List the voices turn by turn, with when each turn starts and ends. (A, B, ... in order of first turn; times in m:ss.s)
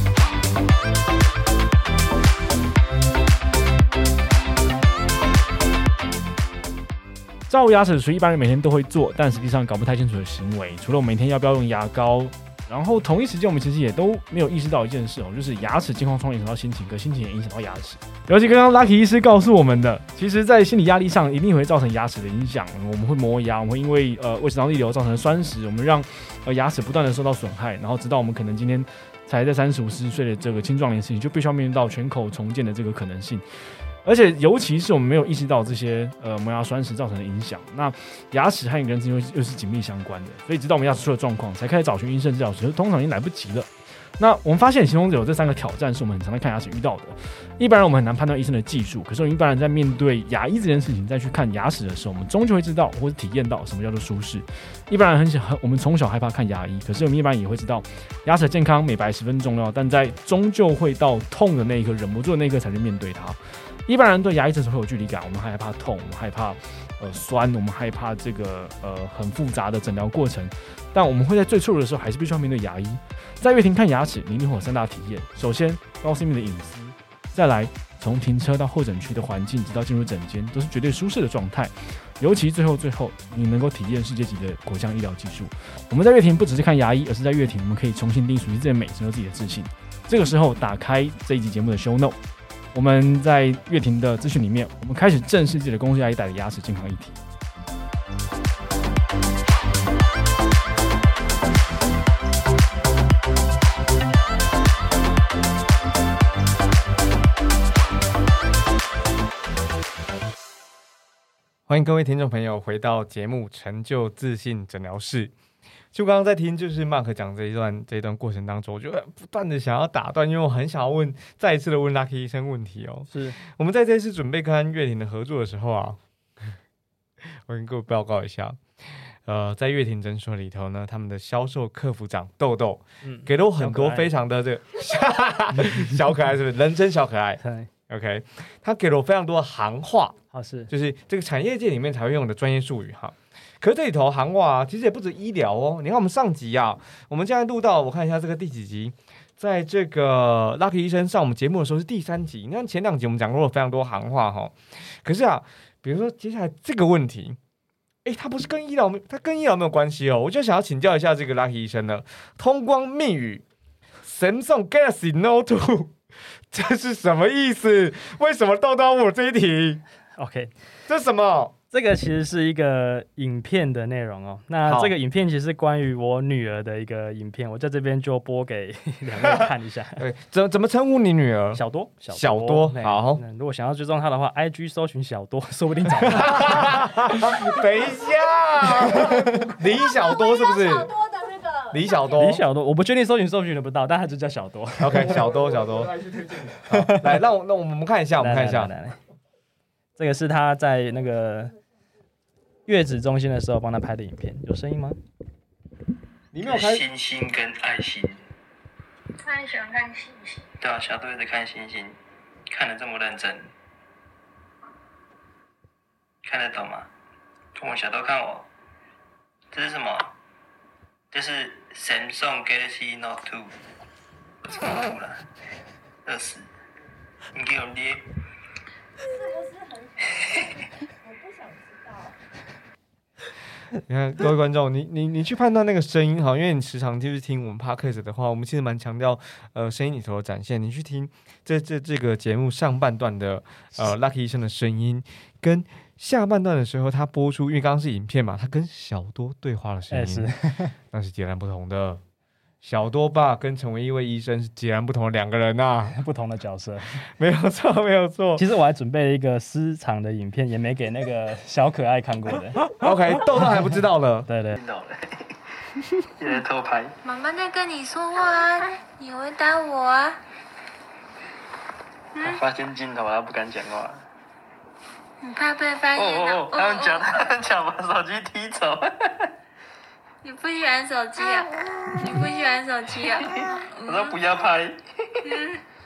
0:07.5-0:33.4 A
0:34.0-1:32.2 A
1:32.7-1:37.2 A
1:51.7-1:55.3 B
1:55.9-2:06.6 B
2:03.1-2:03.4 C
2:07.2-2:20.2 B
2:13.0-2:14.1 C
2:17.4-2:17.7 C
2:20.3-2:20.7 C
2:20.7-2:37.4 B
2:38.0-2:43.4 B
2:44.0-2:46.0 B
2:46.5-2:49.8 B
2:50.2-2:50.5 C
2:50.9-2:51.5 B
2:51.7-3:00.0 C
2:54.6-2:54.9 B
3:00.0-3:03.2 B
3:01.5-3:07.1 C
3:06.1-3:10.9 B
3:08.7-3:09.2 C
3:09.7-3:12.2 D
3:11.7-3:12.4 B
3:12.2-3:15.3 C
3:14.8-3:18.7 B
3:16.4-3:17.2 C
3:18.2-3:19.0 C
3:20.0-3:21.6 C
3:22.7-3:25.0 C
3:26.3-3:26.9 B
3:26.4-3:28.2 E
3:29.2-3:32.0 E
3:32.5-3:33.4 E
3:36.3-3:36.9 E
3:37.6-3:38.5 E
3:39.5-3:40.1 E
3:41.1-3:43.6 E
3:44.5-3:45.2 E
3:46.1-3:46.5 E
3:47.4-3:48.1 E
3:49.0-3:50.4 D
3:50.9-3:52.2 D
3:53.8-4:10.3 B
4:09.9-4:10.8 C
4:10.9-4:12.0 B
4:12.6-4:16.0 B
4:15.9-4:17.0 C
4:17.0-4:18.4 B
4:18.4-4:22.7 C
4:22.8-4:24.3 B
4:24.3-4:24.6 C
4:24.6-4:25.4 E
4:26.0-4:27.0 E
4:27.0-4:30.2 F
4:32.2-4:32.4 F
4:32.2-4:34.0 E
4:35.2-4:37.1 F
4:36.0-4:39.3 E
4:40.2-4:44.2 F
4:43.0-4:45.5 E
4:45.2-4:45.6 F